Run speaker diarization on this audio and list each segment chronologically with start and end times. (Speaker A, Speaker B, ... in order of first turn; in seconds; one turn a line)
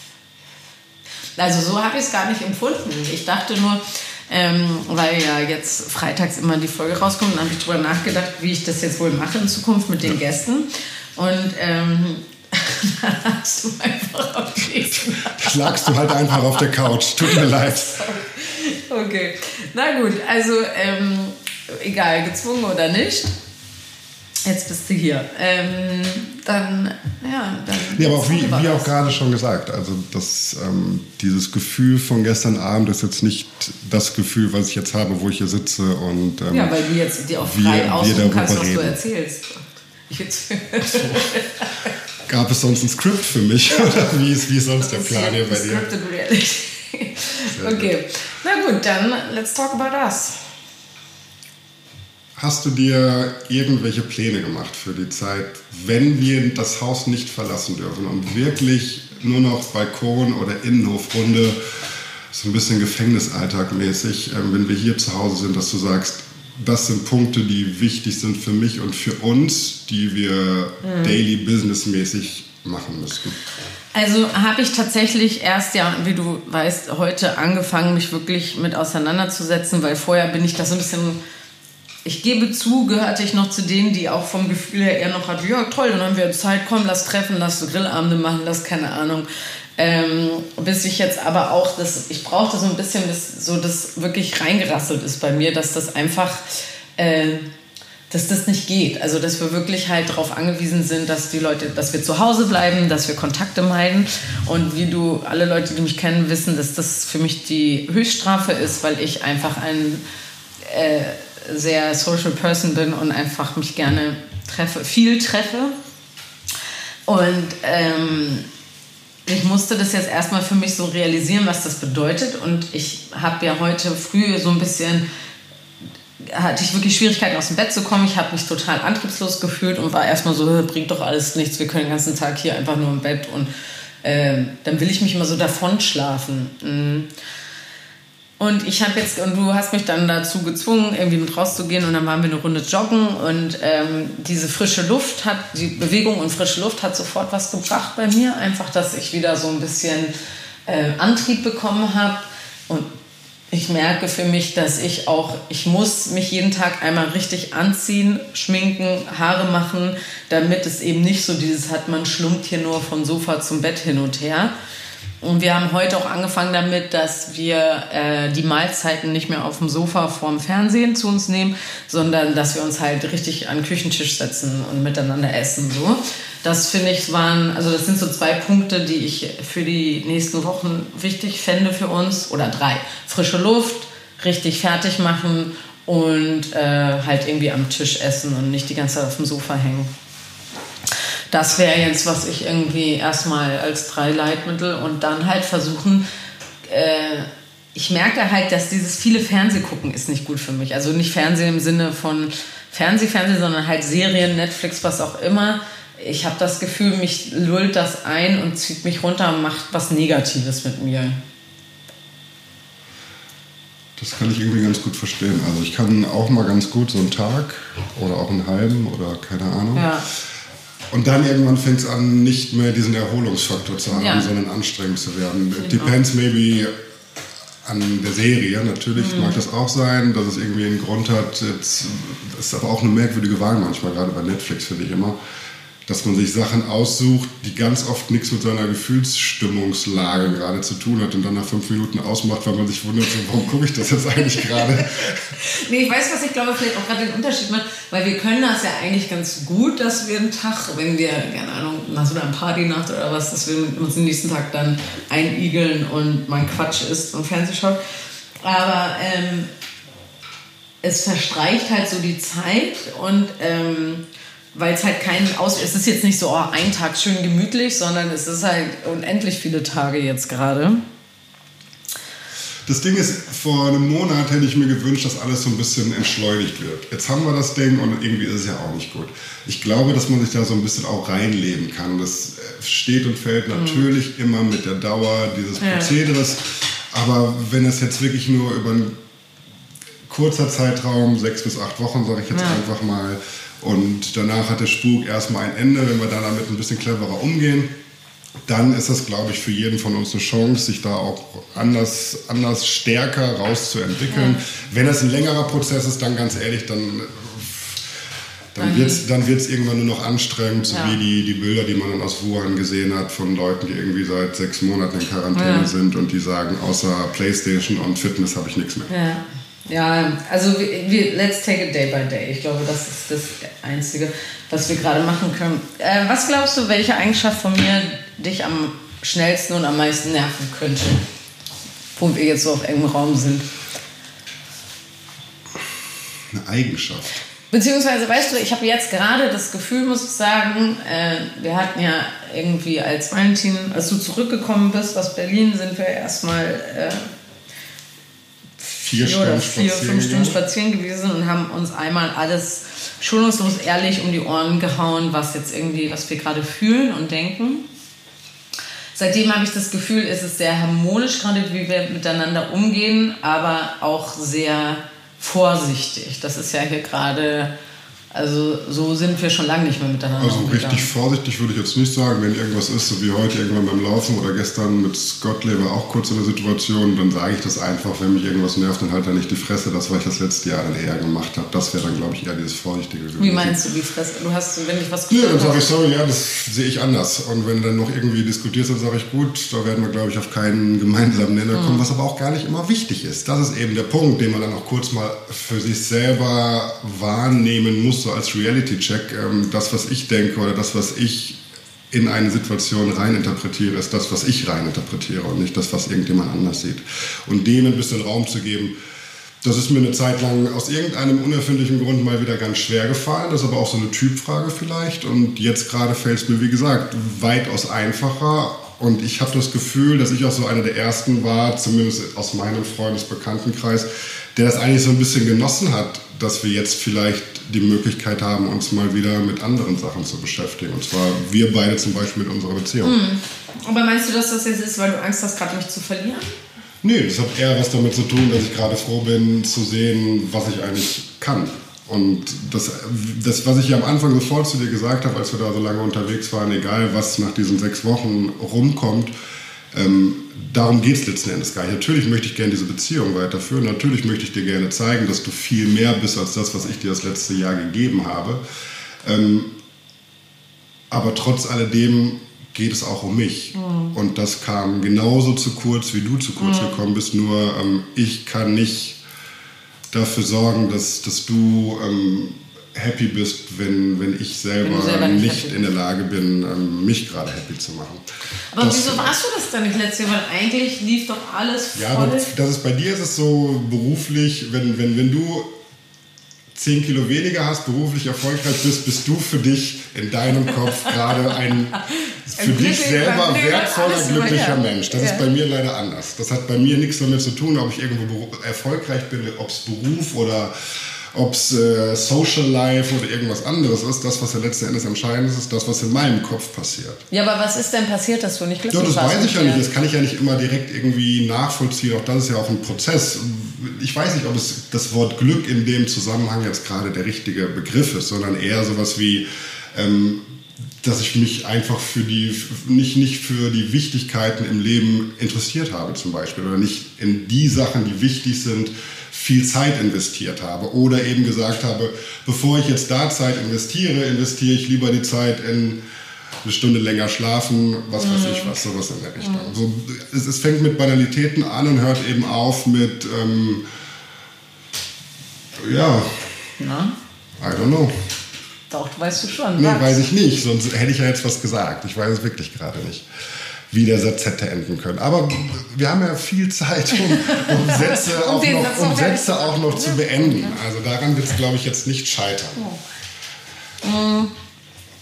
Speaker A: 1.4-16.5
Speaker B: 15.1-18.1
Speaker A: 17.2-23.3
Speaker A: 24.5-29.0
Speaker B: 27.9-36.8
Speaker A: 36.5-41.9
Speaker B: 37.4-39.0
Speaker B: 40.8-41.3
Speaker B: 42.3-45.9
Speaker A: 44.8-50.4
Speaker B: 47.5-47.9
Speaker B: 52.4-61.6
Speaker B: 62.3-73.4
Speaker A: 70.8-71.2
Speaker A: 74.0-81.2
Speaker A: 82.0-97.5
Speaker A: 98.1-110.0
Speaker A: 110.6-115.8
Speaker A: 117.1-118.5
Speaker A: 119.3-125.1
Speaker A: 126.2-133.5
Speaker A: 134.0-137.1
Speaker A: 138.4-150.1
Speaker A: 150.7-152.9
Speaker A: 153.5-164.5
Speaker A: 165.2-189.9
Speaker A: 191.3-196.1
Speaker A: 196.7-211.2
Speaker B: 214.0-219.9
Speaker A: 219.8-220.1
Speaker B: 220.9-226.7
Speaker A: 223.9-224.3
Speaker A: 225.6-226.0
Speaker B: 227.6-235.2
Speaker A: 229.0-229.4
Speaker B: 235.9-245.3
Speaker A: 244.4-244.8
Speaker A: 245.4-257.8
Speaker A: 258.4-259.5
Speaker A: 260.8-270.8
Speaker B: 272.7-289.0
Speaker A: 283.5-283.9
Speaker A: 285.6-285.9
Speaker B: 290.1-297.7
Speaker A: 292.3-292.6
Speaker B: 298.5-307.9
Speaker A: 304.1-304.4
Speaker B: 308.6-318.9
Speaker A: 308.6-309.0
Speaker A: 310.7-311.0
Speaker A: 315.4-315.7
Speaker A: 318.9-331.0
Speaker A: 331.9-333.5
Speaker B: 336.3-337.1
Speaker A: 337.5-347.1
Speaker A: 348.6-357.6
Speaker B: 348.8-350.4
Speaker A: 358.9-367.5
Speaker A: 368.1-370.9
Speaker B: 370.2-383.6
Speaker A: 383.2-385.7
Speaker B: 385.1-401.4
Speaker A: 391.5-391.9
Speaker B: 401.9-408.7
Speaker B: 409.4-433.0
Speaker A: 432.8-436.3
Speaker B: 436.8-449.1
Speaker B: 449.7-458.4
Speaker B: 459.0-459.5
Speaker B: 460.9-469.0
Speaker A: 463.6-463.9
Speaker A: 466.4-466.8
Speaker B: 469.9-478.1
Speaker A: 474.6-475.6
Speaker A: 478.5-482.3
Speaker B: 478.6-479.2
Speaker B: 481.8-485.5
Speaker B: 486.6-500.5
Speaker A: 492.0-495.3
Speaker B: 501.1-507.0
Speaker A: 507.1-509.6
Speaker B: 508.7-520.2
Speaker B: 520.8-535.8
Speaker B: 536.4-543.6
Speaker A: 538.0-538.5
Speaker A: 539.2-539.5
Speaker B: 545.6-546.5
Speaker A: 546.6-547.0
Speaker B: 547.4-547.9
Speaker A: 548.7-550.1
Speaker B: 549.6-553.1
Speaker B: 553.7-562.6
Speaker A: 557.1-560.6
Speaker A: 563.8-564.3